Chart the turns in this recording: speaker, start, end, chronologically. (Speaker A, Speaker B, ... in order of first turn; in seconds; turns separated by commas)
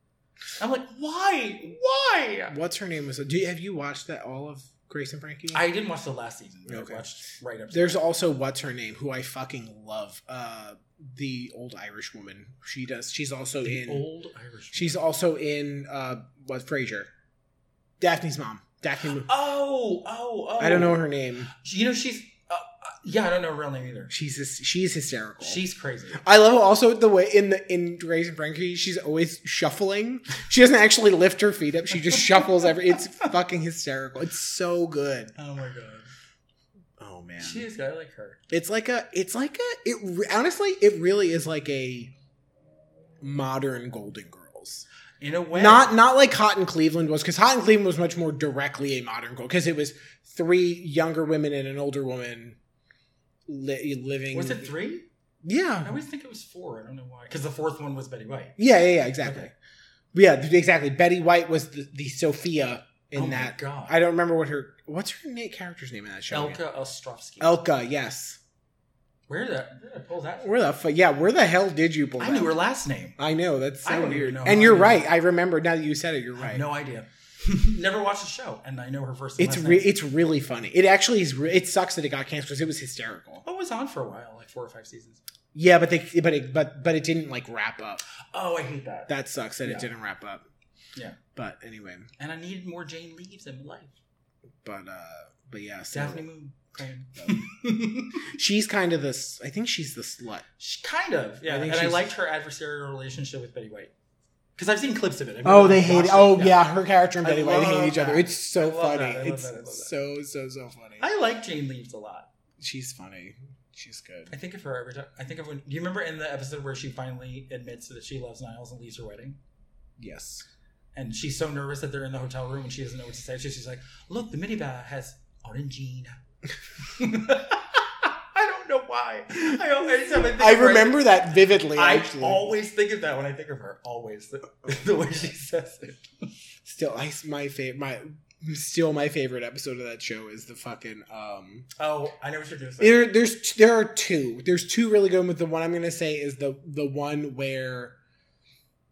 Speaker A: 0.6-2.5, Speaker B: 2.5-5.6, Speaker A: 5.5-8.0, Speaker B: 6.7-7.0, Speaker B: 7.7-14.0, Speaker A: 13.6-14.9, Speaker B: 14.7-17.1, Speaker B: 18.0-19.3, Speaker A: 19.2-24.1, Speaker B: 20.6-21.5, Speaker B: 24.1-25.6, Speaker A: 25.4-26.2, Speaker B: 26.1-35.3, Speaker A: 32.1-32.6, Speaker A: 35.4-36.1, Speaker B: 37.0-37.6, Speaker A: 37.4-38.4, Speaker B: 38.5-42.1, Speaker B: 43.2-44.9, Speaker A: 45.2-45.9, Speaker B: 45.5-52.6, Speaker B: 53.5-54.7, Speaker A: 54.3-55.1, Speaker B: 55.4-56.0, Speaker A: 55.8-58.6, Speaker B: 58.6-59.5, Speaker A: 59.2-59.5, Speaker B: 60.1-66.6, Speaker A: 63.1-63.9, Speaker A: 66.3-67.5, Speaker B: 67.4-68.4, Speaker A: 69.3-70.5, Speaker B: 70.4-72.5, Speaker A: 72.2-73.2, Speaker B: 73.2-76.7, Speaker A: 73.8-75.1, Speaker A: 76.3-79.9, Speaker B: 79.4-83.4, Speaker A: 83.4-85.2, Speaker B: 85.5-88.0, Speaker A: 88.2-89.1, Speaker B: 89.1-90.4, Speaker A: 89.6-89.9, Speaker B: 91.3-92.1, Speaker A: 92.2-94.0, Speaker B: 94.6-96.2, Speaker A: 95.9-98.2, Speaker B: 98.2-100.4, Speaker A: 100.6-103.9, Speaker B: 101.5-102.1, Speaker A: 104.5-106.6, Speaker B: 105.4-111.0, Speaker A: 107.2-109.9, Speaker A: 111.0-112.3, Speaker B: 112.6-114.3, Speaker A: 114.3-119.4, Speaker B: 120.0-120.5, Speaker A: 120.9-126.2, Speaker A: 126.8-131.2, Speaker B: 130.1-132.5, Speaker A: 131.7-136.3, Speaker B: 136.6-141.7, Speaker A: 141.8-143.0, Speaker B: 142.8-147.9